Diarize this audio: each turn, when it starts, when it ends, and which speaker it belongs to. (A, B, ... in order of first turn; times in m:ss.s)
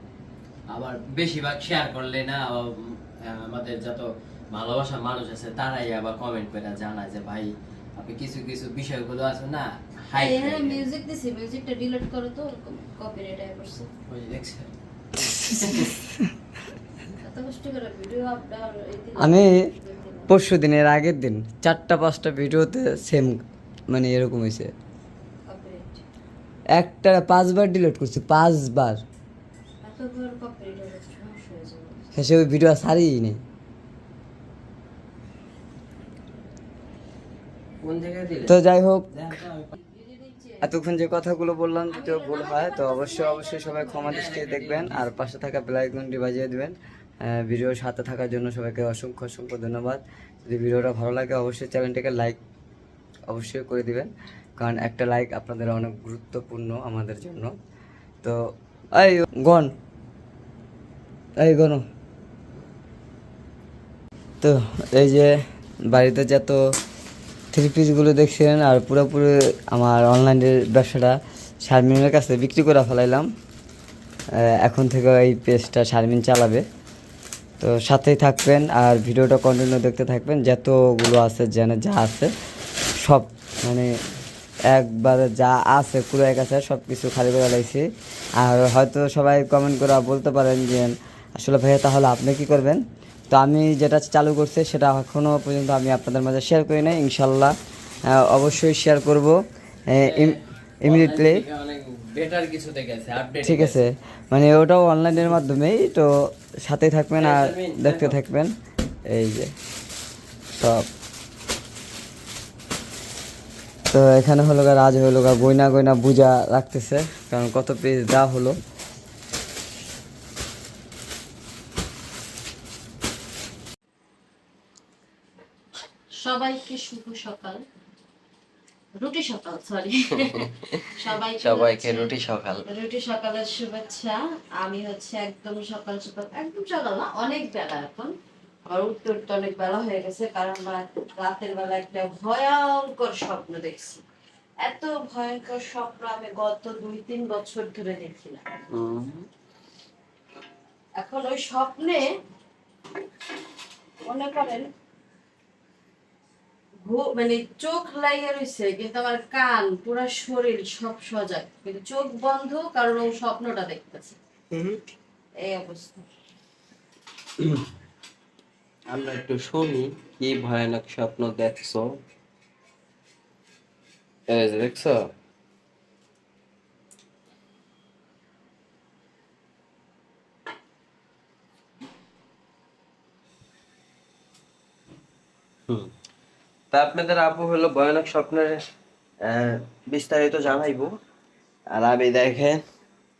0:00.7-0:10.8 A
0:10.1-0:13.9 B
0:14.1-0:16.0 A
0:15.2-0:16.3 C
0:17.2-0:20.3 B
0:19.2-0:19.7 C
0:20.3-0:24.7 C
0:25.5-0:26.0 B
0:26.8-0:29.0 C
0:29.8-0:32.0 B
0:32.1-0:33.4 C
0:37.8-0:38.6 A
0:38.5-0:39.1 C
0:39.1-0:39.8 A
0:39.8-0:40.7 B
0:40.6-0:52.4 C
0:41.9-0:44.2 B
0:44.0-0:45.1 A
0:53.3-0:57.5 C
0:58.9-0:59.7 C
1:01.4-1:01.8 C
1:04.4-1:06.6 C
1:07.5-1:13.3 C
1:14.3-1:16.6 C
1:17.6-1:22.3 C
1:23.0-1:23.9 C
1:24.7-1:27.8 C
1:28.4-1:37.5 C
1:38.1-1:41.4 C
1:40.0-1:43.8 A
1:43.4-1:48.5 C
1:47.2-1:48.2 A
1:49.1-1:49.5 C
1:50.6-1:50.8 C
1:53.9-1:58.6 C
2:06.2-2:07.6 B
2:09.0-2:12.1 B
2:10.3-2:10.8 A
2:11.4-2:12.7 A
2:12.7-2:18.1 B
2:18.7-2:24.0 B
2:24.6-2:28.4 B
2:28.7-2:29.3 A
2:31.0-2:32.0 B
2:34.1-2:34.7 B
2:36.8-2:44.2 B
2:44.5-2:44.8 A
2:45.4-2:46.0 B
2:48.9-2:51.9 A
2:54.3-2:55.1 A
3:06.7-3:08.6 A
3:09.2-3:10.9 A
3:11.7-3:12.6 A